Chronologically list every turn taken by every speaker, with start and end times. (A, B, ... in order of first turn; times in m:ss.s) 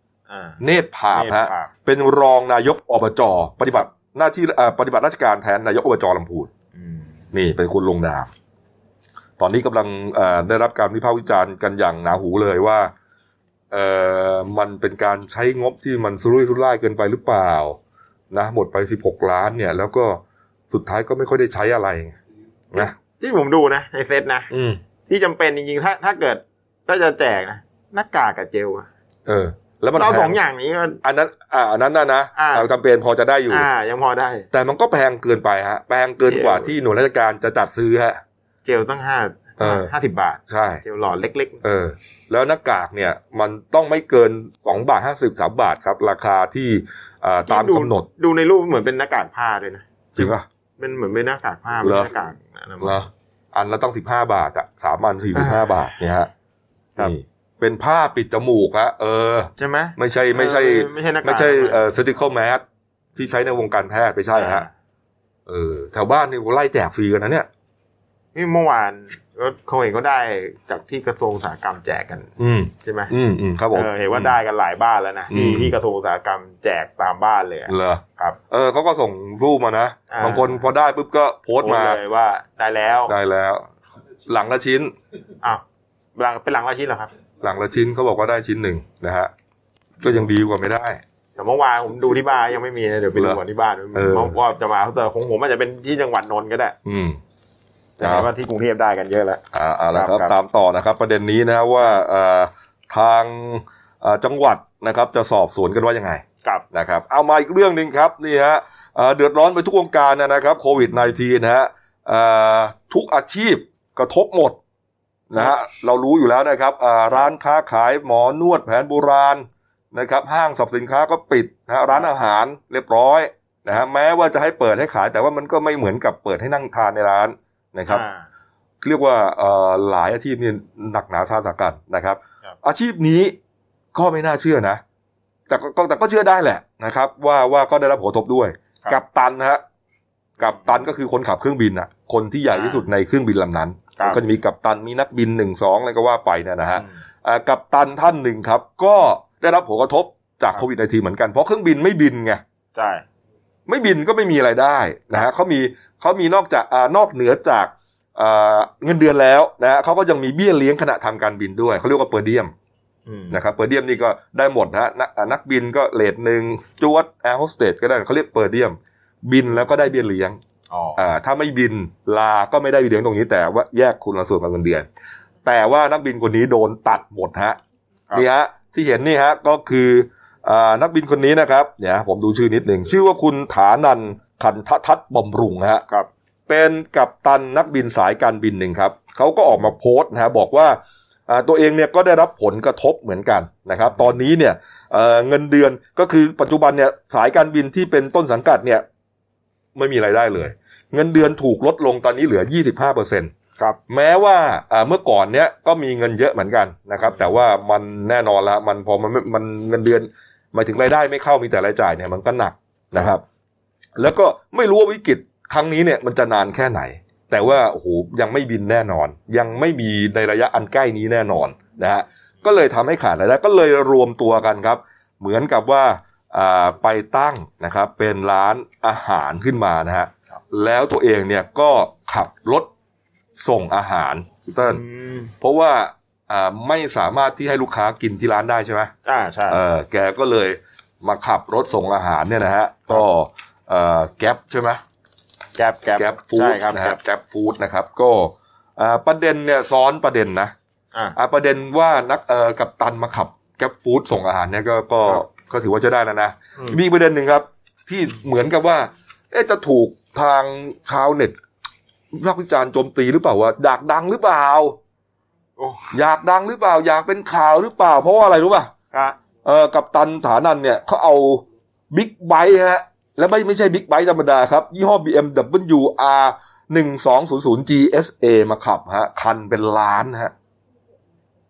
0:00.3-0:00.6 A
0:00.6-0:06.5 B
0:01.1-0:01.7 A
0:06.8-0:07.2 A
0:07.3-0:08.3 B
0:09.4-0:12.9 B
0:13.7-0:17.8 B
0:18.3-0:22.2 B
0:22.7-0:24.5 A
0:24.5-0:24.8 B
0:25.1-0:28.9 A
0:29.3-0:30.4 B
0:29.9-0:31.0 A
0:31.0-0:33.7 B
0:32.4-0:32.7 A
0:33.5-0:34.5 A
0:34.5-0:38.2 B
0:36.3-0:36.7 A
0:38.6-0:41.6 A
0:39.6-0:39.9 B
0:40.5-0:40.8 B
0:41.6-0:48.1 B
0:47.5-0:53.0 A
0:50.2-0:50.4 B
0:51.8-0:52.1 B
0:52.8-0:56.3 B
0:55.4-0:55.9 A
0:57.0-1:02.6 B
0:59.6-1:01.8 A
1:03.2-1:04.6 B
1:04.4-1:04.7 A
1:05.5-1:07.5 B
1:08.4-1:12.3 A
1:12.4-1:14.4 B
1:12.8-1:13.1 A
1:13.7-1:18.4 A
1:15.3-1:15.7 B
1:17.7-1:22.0 B
1:20.1-1:20.6 A
1:21.6-1:23.1 A
1:23.1-1:23.7 B
1:24.3-1:24.9 B
1:26.2-1:27.1 A
1:27.4-1:29.3 B
1:30.0-1:31.0 B
1:31.4-1:36.8 A
1:34.0-1:34.3 B
1:36.8-1:37.2 B
1:38.0-1:39.4 A
1:38.0-1:38.3 B
1:39.5-1:54.6 B
1:40.0-1:40.3 A
1:55.3-2:08.0 B
2:07.9-2:08.2 A
2:08.8-2:13.4 B
2:13.9-2:14.8 B
2:15.5-2:19.6 B
2:20.4-2:32.4 B
2:22.5-2:22.8 A
2:32.8-2:33.0 A
2:33.7-2:42.5 B
2:43.1-2:43.4 A
2:43.3-2:50.4 B
2:50.7-2:51.0 A
2:51.0-2:54.9 B
2:55.4-2:57.6 B
2:58.1-3:05.8 B
3:06.5-3:18.8 B
3:19.8-3:23.3 B
3:23.9-3:33.2 B
3:34.0-3:52.7 B
3:53.4-3:54.8 B
3:54.6-3:55.3 A
3:55.4-3:58.9 B
3:59.0-3:59.6 A
3:59.5-4:04.8 B
4:05.6-4:07.0 A
4:06.0-4:10.5 B
4:11.2-4:21.4 B
4:22.1-4:24.8 B
4:25.6-4:25.9 A
4:25.9-4:28.7 B
4:29.4-4:40.3 B